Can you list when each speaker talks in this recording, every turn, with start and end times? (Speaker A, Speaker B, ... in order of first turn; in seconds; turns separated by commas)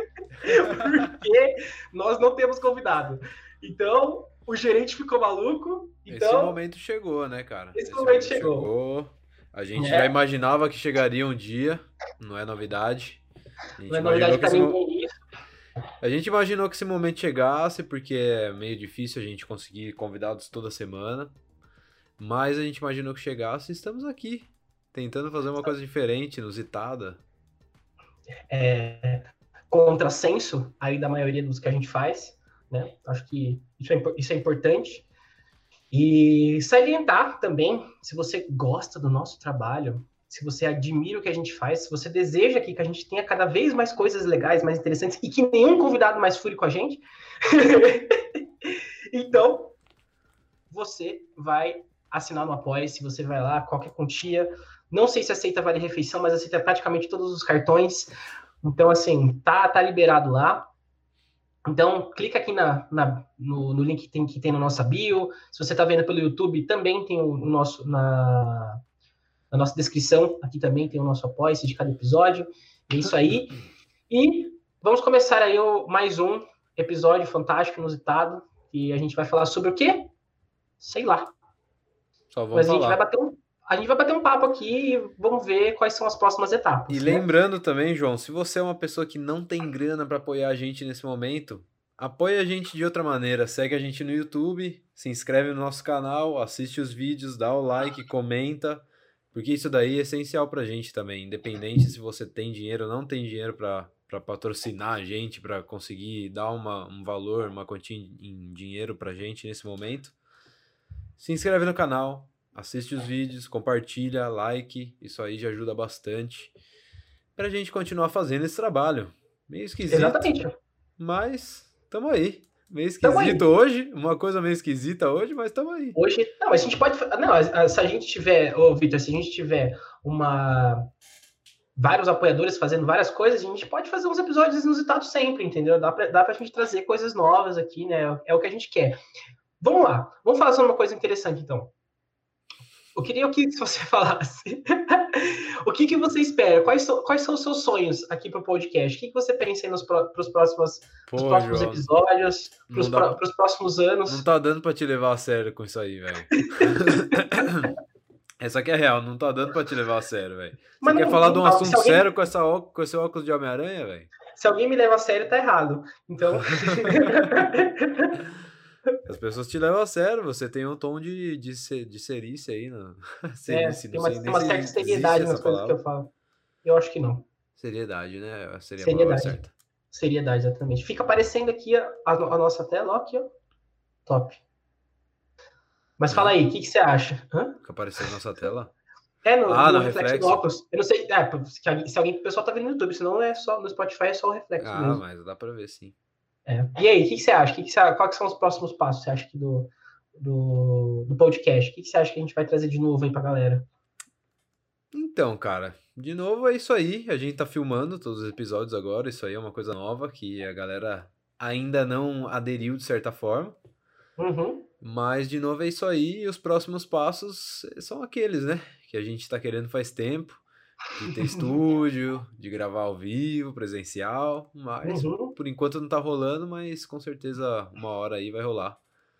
Speaker A: 0.4-1.1, Speaker B: 0.4-6.6, Speaker A: 6.1-13.2, Speaker B: 7.7-8.7, Speaker B: 9.8-10.1, Speaker A: 13.8-14.8, Speaker B: 13.9-15.1, Speaker A: 16.0-21.3, Speaker A: 22.2-27.2, Speaker B: 28.5-35.0, Speaker B: 35.9-49.8, Speaker B: 50.7-60.7, Speaker B: 61.6-68.8, Speaker B: 69.5-80.1, Speaker B: 80.8-81.3, Speaker A: 82.3-83.0, Speaker B: 82.5-87.2, Speaker A: 86.9-110.1, Speaker A: 111.2-116.5, Speaker A: 117.3-120.3, Speaker B: 119.9-120.5, Speaker A: 121.0-126.0, Speaker B: 123.0-123.4, Speaker B: 126.0-130.9, Speaker B: 131.8-139.0, Speaker B: 139.6-141.7, Speaker B: 142.9-154.2, Speaker A: 151.1-151.9, Speaker A: 152.7-153.2, Speaker A: 154.1-157.7, Speaker B: 156.4-157.2, Speaker A: 158.4-164.1, Speaker B: 160.8-162.0, Speaker B: 164.3-168.2, Speaker A: 166.6-167.5, Speaker A: 169.0-175.8, Speaker B: 173.5-176.1, Speaker B: 176.6-177.3, Speaker A: 177.6-179.5, Speaker B: 178.8-183.3, Speaker B: 184.1-184.4, Speaker B: 186.0-187.6, Speaker A: 186.1-186.3, Speaker A: 187.6-188.7, Speaker B: 189.2-195.0, Speaker A: 189.5-190.4, Speaker A: 194.6-195.9, Speaker B: 196.4-203.7, Speaker A: 204.9-213.6, Speaker B: 214.2-214.7, Speaker A: 214.8-220.4, Speaker A: 221.0-228.8, Speaker B: 221.1-221.4, Speaker B: 224.8-225.3